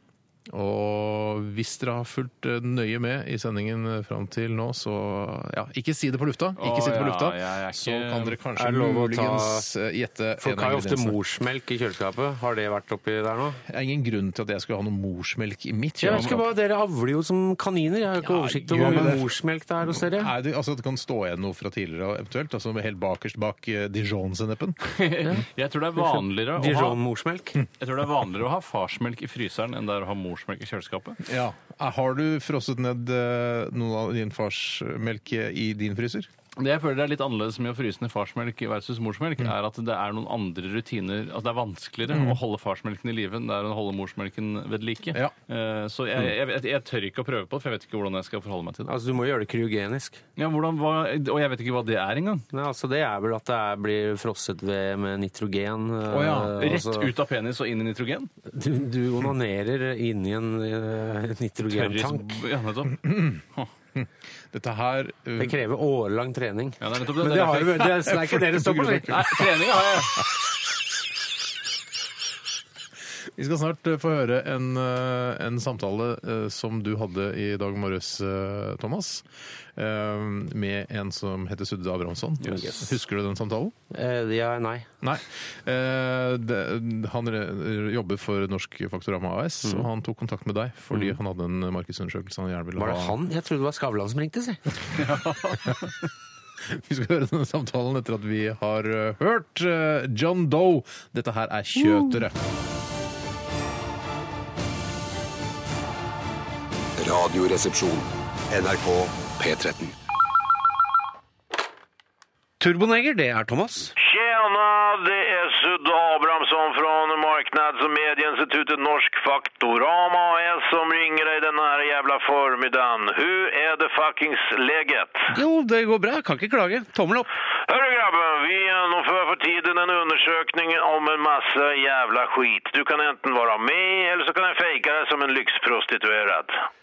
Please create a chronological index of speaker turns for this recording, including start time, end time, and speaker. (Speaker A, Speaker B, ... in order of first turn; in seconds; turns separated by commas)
Speaker A: 0.5-11.2, Speaker B: 6.6-8.4, Speaker C: 8.6-9.7, Speaker C: 10.4-13.6, Speaker A: 13.7-16.5, Speaker C: 16.0-20.3, Speaker A: 18.2-24.8, Speaker B: 24.9-27.0, Speaker C: 26.6-27.6, Speaker B: 27.8-31.2, Speaker A: 31.2-36.3, Speaker B: 36.6-48.9, Speaker A: 42.1-42.4, Speaker C: 48.9-50.2, Speaker B: 50.4-52.5, Speaker C: 52.5-57.1, Speaker A: 56.1-56.6, Speaker B: 56.4-58.3, Speaker C: 58.5-62.4, Speaker B: 61.7-63.7, Speaker A: 63.0-63.4, Speaker A: 64.0-65.6, Speaker C: 65.4-69.4, Speaker B: 66.8-68.1, Speaker A: 68.0-70.0, Speaker B: 68.8-70.3, Speaker A: 73.4-83.8, Speaker C: 83.9-84.9, Speaker A: 85.0-93.2, Speaker C: 92.8-94.6, Speaker B: 95.0-96.0, Speaker A: 96.6-102.3, Speaker D: 107.0-110.0, Speaker C: 112.6-114.0, Speaker E: 114.0-125.3, Speaker C: 125.3-127.3, Speaker E: 127.7-136.6